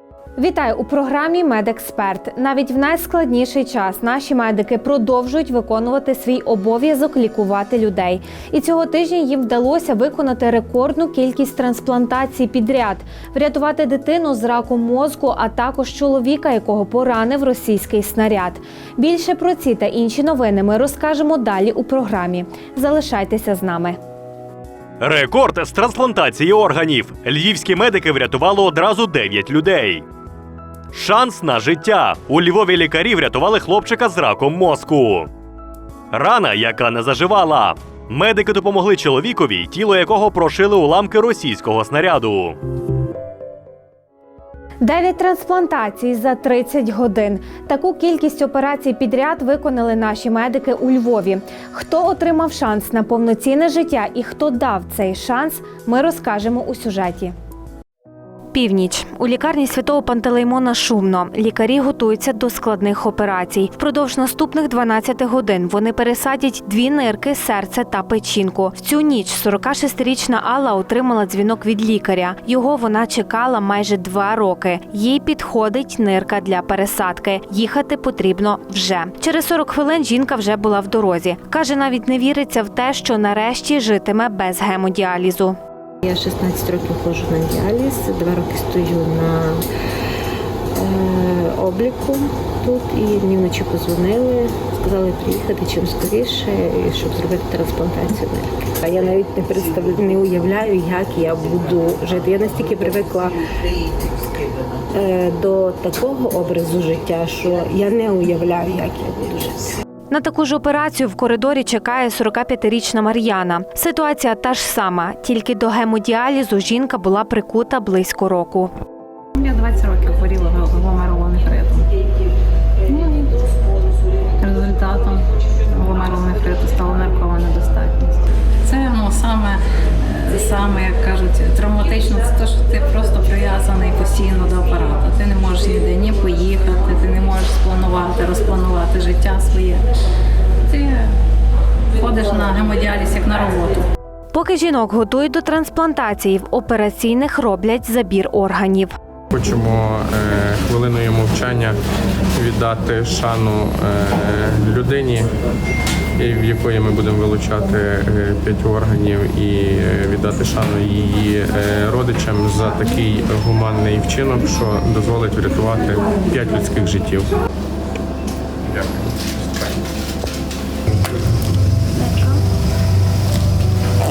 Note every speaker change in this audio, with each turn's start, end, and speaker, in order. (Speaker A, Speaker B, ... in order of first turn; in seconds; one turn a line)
Speaker A: 0.4-24.0
Speaker B: 25.0-30.0
Speaker B: 30.9-35.3
Speaker B: 36.1-42.5
Speaker A: 44.8-57.3
Speaker A: 58.5-85.6
Speaker C: 86.0-89.7
Speaker C: 90.7-103.3
Speaker C: 104.9-109.7
Speaker A: 110.1-118.7
Speaker D: 119.4-121.9
Speaker D: 122.9-123.3
Speaker D: 124.4-139.8
Speaker D: 140.7-141.0
Speaker D: 142.0-143.8
Speaker A: 144.3-148.9
Speaker E: 149.3-151.8
Speaker E: 152.3-155.3
Speaker E: 156.2-167.3